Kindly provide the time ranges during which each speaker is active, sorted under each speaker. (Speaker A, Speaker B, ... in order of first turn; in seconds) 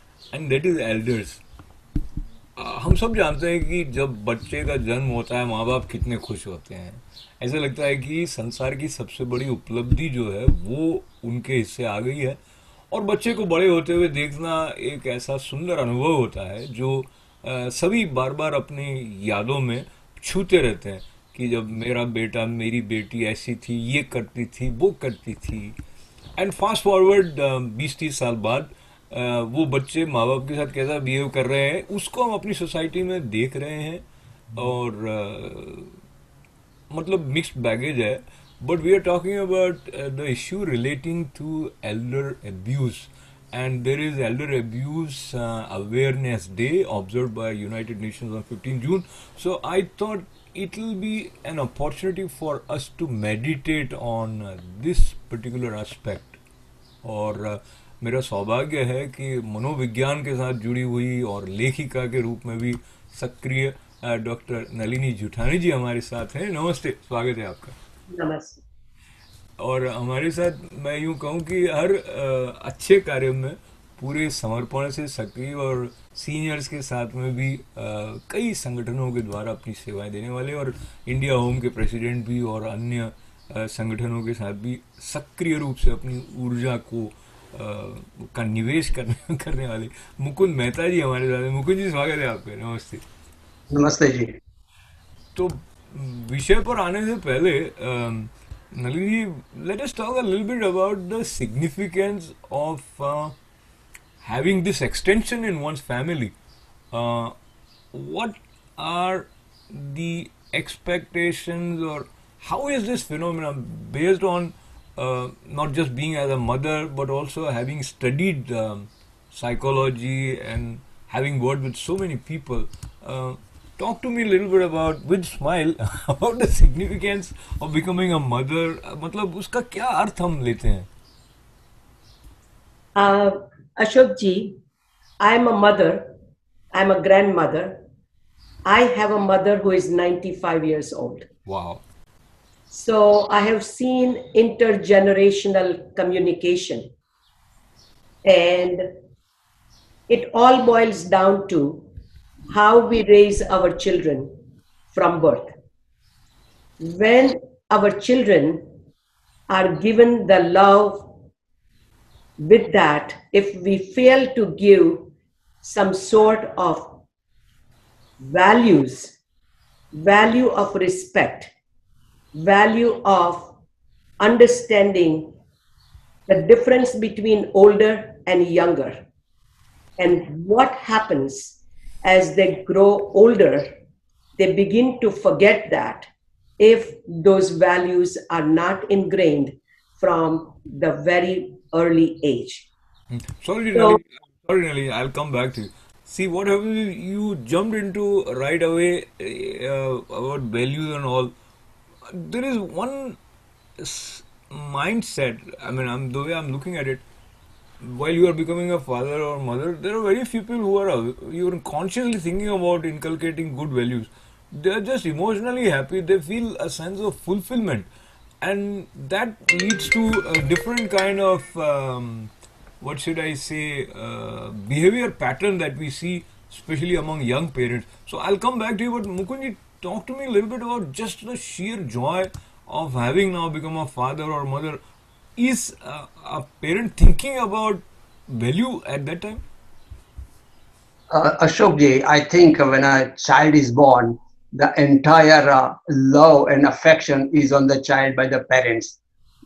Speaker A: 0.3-1.4, 2.6-12.4, 12.9-25.8, 26.4-34.0, 34.5-36.0, 36.9-56.4, 57.0-67.7, 69.6-93.0, 95.3-103.3, 104.2-106.3, 106.9-107.3, 107.9-130.9, 141.5-141.8, 193.1-201.3, 202.1-203.2, 203.8-207.0, 207.8-217.9, 218.4-234.8, 235.4-239.4
Speaker B: 68.1-68.6, 132.9-134.6, 135.2-136.1, 136.7-137.8, 138.7-141.3, 142.7-146.9, 148.2-148.9, 150.1-151.8, 152.5-154.3, 154.9-155.5, 156.8-158.7, 159.5-161.1, 162.4-165.1, 165.6-167.0, 168.2-169.2, 169.9-171.5, 172.3-173.5, 174.2-175.3, 176.3-179.0, 180.0-183.7, 184.4-186.1, 186.6-192.7, 193.7-194.0
Speaker C: 93.7-94.3, 241.1-249.0